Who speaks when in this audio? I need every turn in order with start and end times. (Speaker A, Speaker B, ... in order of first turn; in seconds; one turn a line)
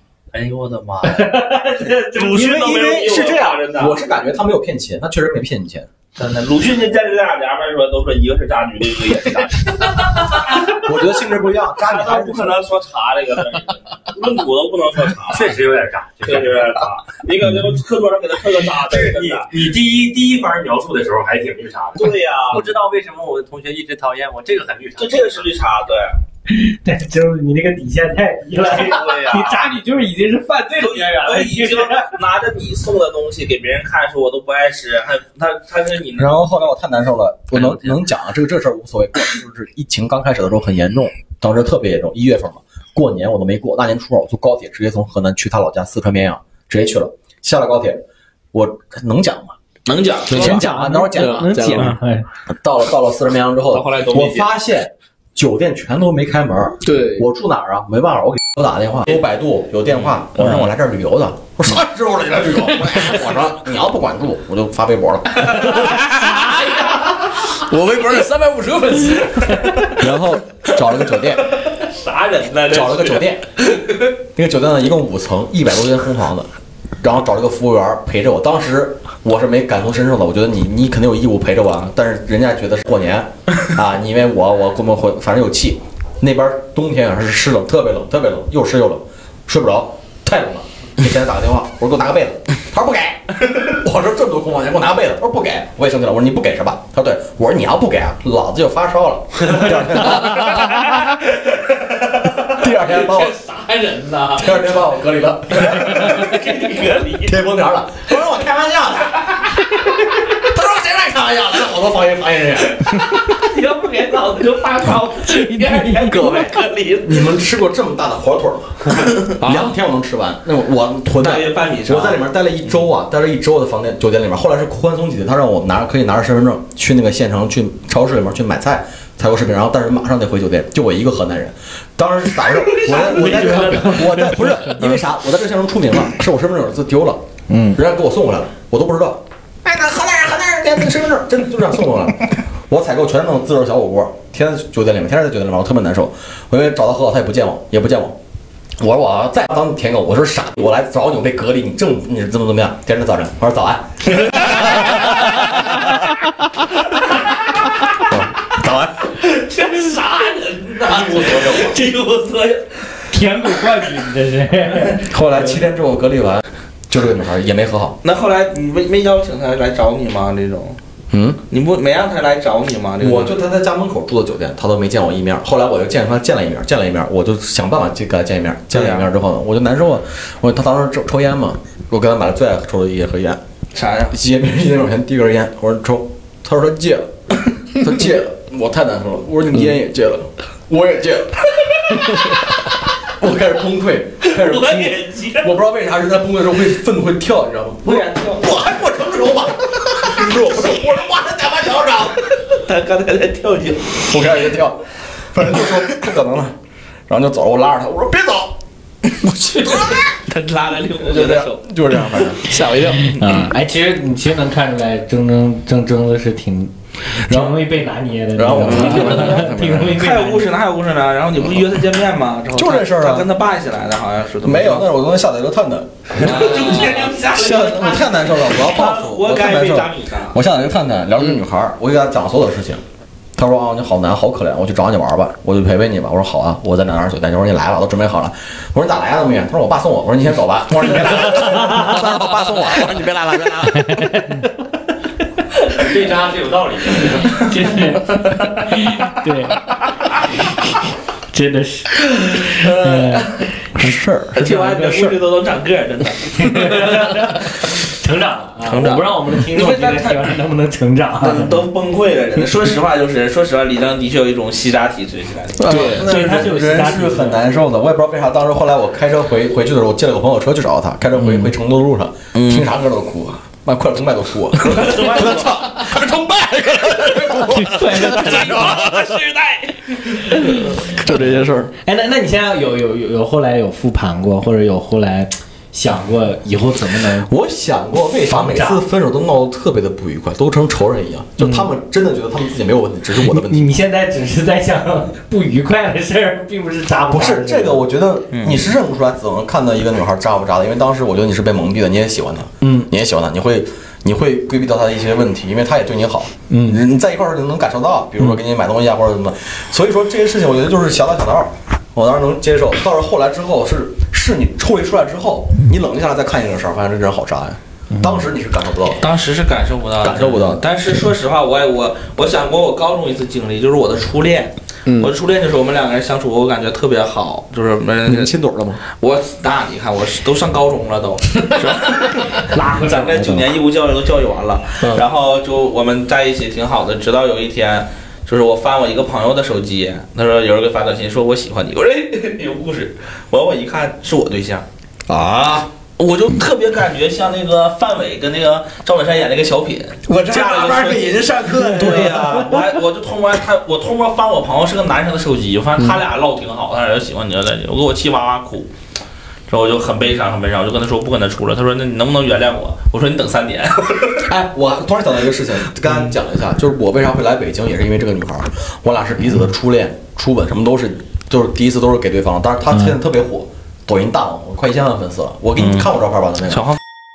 Speaker A: 0.3-4.0
Speaker B: 1.1-2.2
Speaker C: 2.2-5.9
Speaker A: 6.2-11.0
Speaker C: 10.6-12.7
Speaker A: 11.8-15.6
Speaker D: 15.3-16.8
Speaker A: 16.2-19.5
Speaker D: 18.9-25.5
Speaker A: 22.0-22.7
Speaker A: 25.0-26.2
Speaker B: 26.5-32.1
Speaker A: 28.7-29.8
Speaker A: 30.8-36.3
Speaker C: 36.2-49.6
Speaker A: 37.5-38.0
Speaker A: 49.9-50.6
Speaker C: 50.3-51.6
Speaker B: 50.3-52.3
Speaker E: 51.1-52.0
Speaker C: 52.5-66.2
Speaker A: 53.7-54.5
Speaker E: 56.8-57.3
Speaker A: 60.4-60.7
Speaker E: 65.7-70.0
Speaker C: 69.9-71.5
Speaker A: 71.7-73.3
Speaker C: 72.7-76.5
Speaker C: 77.0-101.2
Speaker C: 102.4-103.4
Speaker A: 102.9-104.5
Speaker C: 104.3-106.4
Speaker A: 105.6-107.4
Speaker C: 107.2-113.0
Speaker A: 112.9-117.3
Speaker B: 115.1-116.5
Speaker C: 116.1-148.2
Speaker E: 119.4-119.7
Speaker A: 121.2-122.2
Speaker A: 132.6-134.1
Speaker B: 132.9-134.7
Speaker B: 137.5-137.8
Speaker C: 148.8-155.4
Speaker A: 154.3-155.2
Speaker C: 158.0-159.1
Speaker A: 159.2-162.7
Speaker C: 161.1-161.6
Speaker B: 163.1-165.1
Speaker C: 165.0-168.0
Speaker A: 168.0-170.8
Speaker C: 171.1-171.4
Speaker A: 171.5-173.4
Speaker C: 173.0-183.4
Speaker A: 178.7-179.1
Speaker A: 183.7-184.2
Speaker C: 184.1-202.3
Speaker A: 194.2-195.6
Speaker A: 197.8-198.6
Speaker A: 202.5-204.2
Speaker C: 204.1-206.6
Speaker C: 207.1-208.6
Speaker E: 209.2-209.6
Speaker C: 209.6-210.1
Speaker A: 209.7-212.3
Speaker C: 211.0-212.5
Speaker E: 212.4-213.2
Speaker B: 213.1-220.5
Speaker C: 217.2-217.7
Speaker C: 218.3-220.0
Speaker A: 218.7-224.9
Speaker C: 222.5-223.3
Speaker C: 224.4-232.8
Speaker A: 226.2-230.4
Speaker C: 233.4-244.2
Speaker B: 243.8-244.5
Speaker D: 245.8-247.5
Speaker B: 247.4-249.7
Speaker B: 251.3-253.4
Speaker C: 253.8-255.2
Speaker A: 254.4-257.0
Speaker B: 256.4-261.6
Speaker A: 258.6-260.2
Speaker A: 261.2-266.1
Speaker C: 265.6-279.0
Speaker E: 265.7-266.0
Speaker B: 265.7-267.4
Speaker A: 272.3-272.7
Speaker A: 274.6-275.9
Speaker B: 277.4-278.9
Speaker A: 277.8-280.6
Speaker B: 280.4-280.9
Speaker C: 280.7-281.7
Speaker B: 281.8-287.3
Speaker C: 287.0-293.8
Speaker B: 288.3-288.9
Speaker B: 291.4-291.7
Speaker B: 293.2-297.8
Speaker C: 297.1-319.1
Speaker A: 298.3-298.7
Speaker B: 302.6-302.9
Speaker B: 306.5-306.8
Speaker A: 319.0-328.3
Speaker C: 320.0-320.6
Speaker C: 328.1-328.8
Speaker A: 328.9-344.6
Speaker B: 332.5-333.5
Speaker E: 345.1-345.7
Speaker A: 346.0-358.7
Speaker E: 350.1-352.5
Speaker A: 359.5-364.2
Speaker C: 364.2-376.8
Speaker A: 375.6-375.9
Speaker A: 376.5-376.8